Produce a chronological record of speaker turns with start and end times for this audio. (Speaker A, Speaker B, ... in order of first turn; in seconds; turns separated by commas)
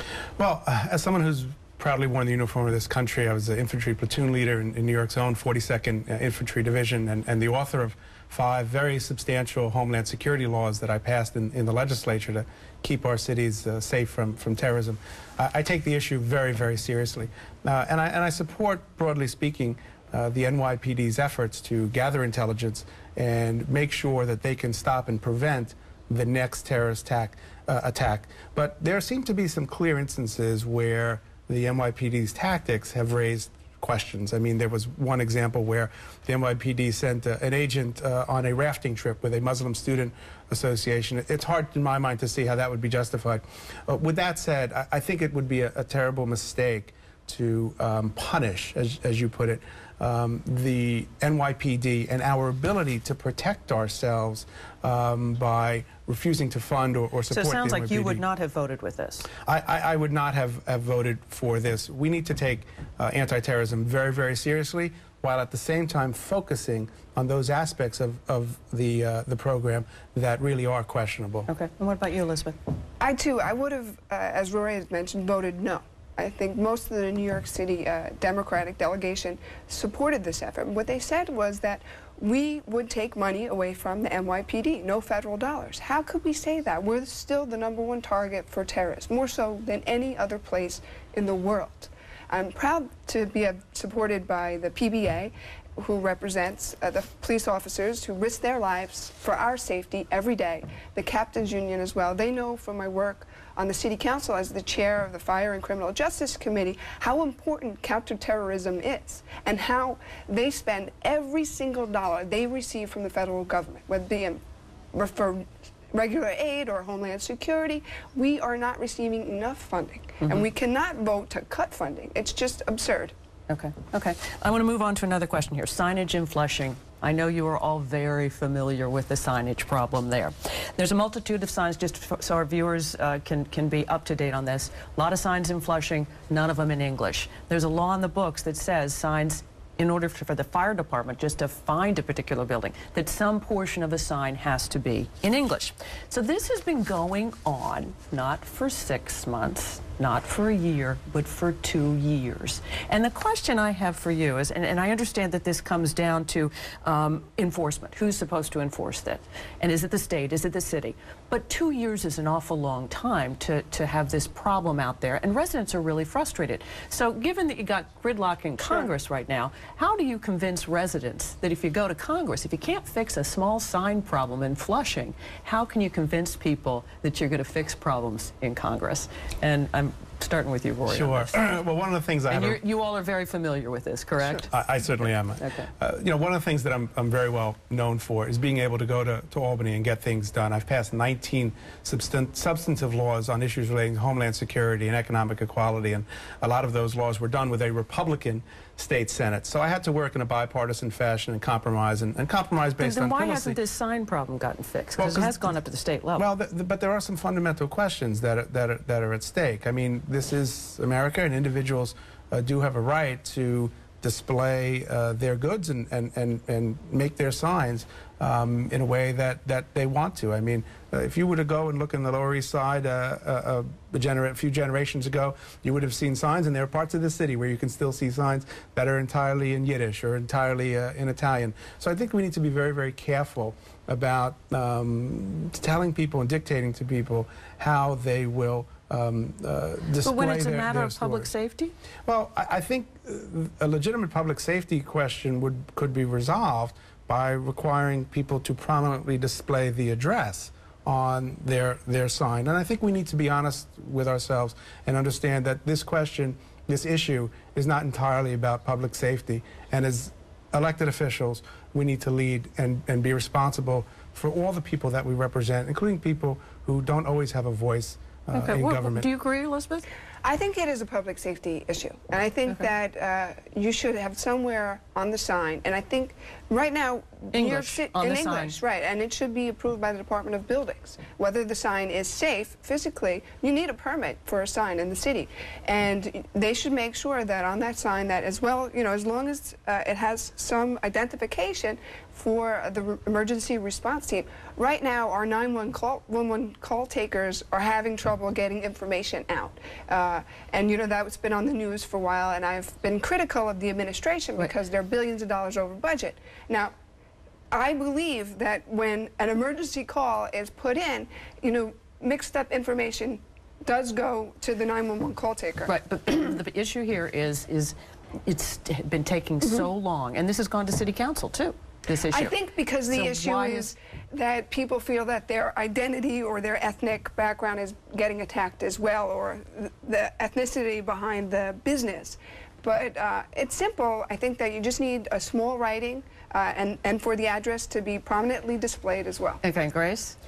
Speaker A: 0.4-58.2, Speaker B: 57.3-59.3, Speaker A: 59.5-71.5, Speaker B: 71.5-72.6, Speaker C: 73.0-114.4, Speaker C: 114.9-123.1, Speaker B: 123.5-181.4, Speaker A: 180.9-182.6, Speaker B: 182.3-185.7, Speaker A: 184.3-203.6, Speaker B: 202.8-206.2, Speaker A: 205.0-205.5, Speaker A: 206.2-241.3, Speaker B: 240.0-241.7, Speaker A: 242.1-269.1, Speaker B: 268.3-269.9, Speaker C: 270.2-306.7, Speaker B: 277.3-278.6, Speaker C: 307.5-315.7, Speaker B: 315.6-317.7, Speaker B: 318.2-322.4, Speaker C: 322.1-339.4, Speaker B: 322.9-323.7, Speaker B: 339.4-340.1